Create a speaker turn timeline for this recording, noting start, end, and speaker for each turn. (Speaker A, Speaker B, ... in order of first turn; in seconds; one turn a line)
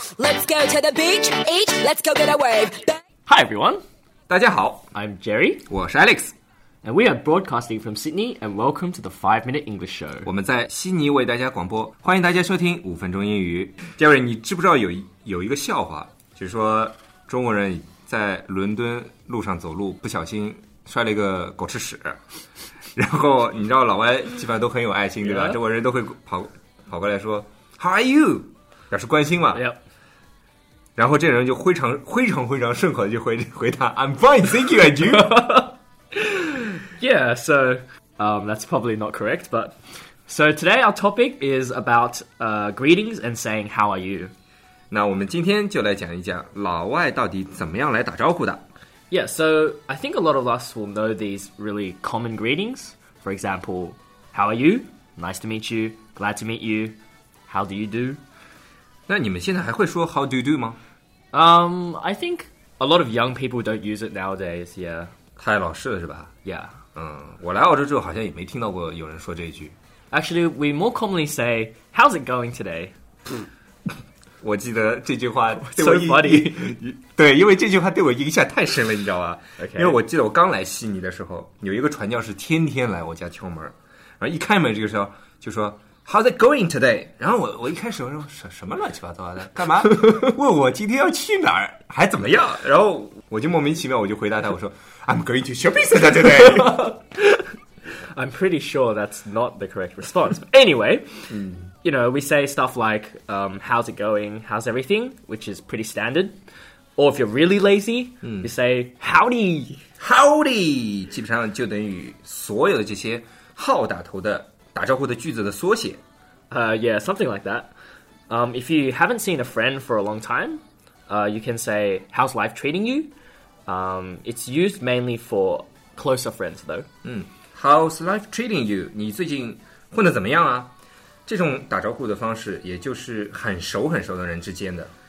Speaker A: 0.2-3.0
Speaker B: 3.3-3.8
Speaker C: 4.3-4.9
Speaker B: 4.9-5.6
Speaker C: 5.7-6.3
Speaker B: 6.8-10.3
Speaker C: 10.2-22.2
Speaker C: 22.9-29.6
Speaker B: 25.2-25.6
Speaker B: 29.5-29.8
Speaker C: 31.0-35.4
Speaker B: 35.1-39.8
Speaker B: 40.3-44.3
Speaker C: 44.9-48.6
Speaker B: 49.1-58.2
Speaker C: 59.1-60.8
Speaker B: 61.3-65.1
Speaker C: 65.4-66.3
Speaker B: 66.4-66.8
Speaker C: 66.9-69.8
Speaker B: 70.1-72.9
Speaker C: 74.4-96.9
Speaker B: 75.6-76.8
Speaker B: 79.6-80.0
Speaker B: 96.2-97.4
Speaker B: 98.1-106.4
Speaker C: 101.3-101.7
Speaker B: 107.0-109.8
Speaker C: 108.2-108.5
Speaker C: 110.0-116.0
Speaker B: 116.5-117.7
Speaker B: 118.3-123.1
Speaker B: 123.7-126.9
Speaker C: 127.0-130.7
Speaker C: 131.2-134.9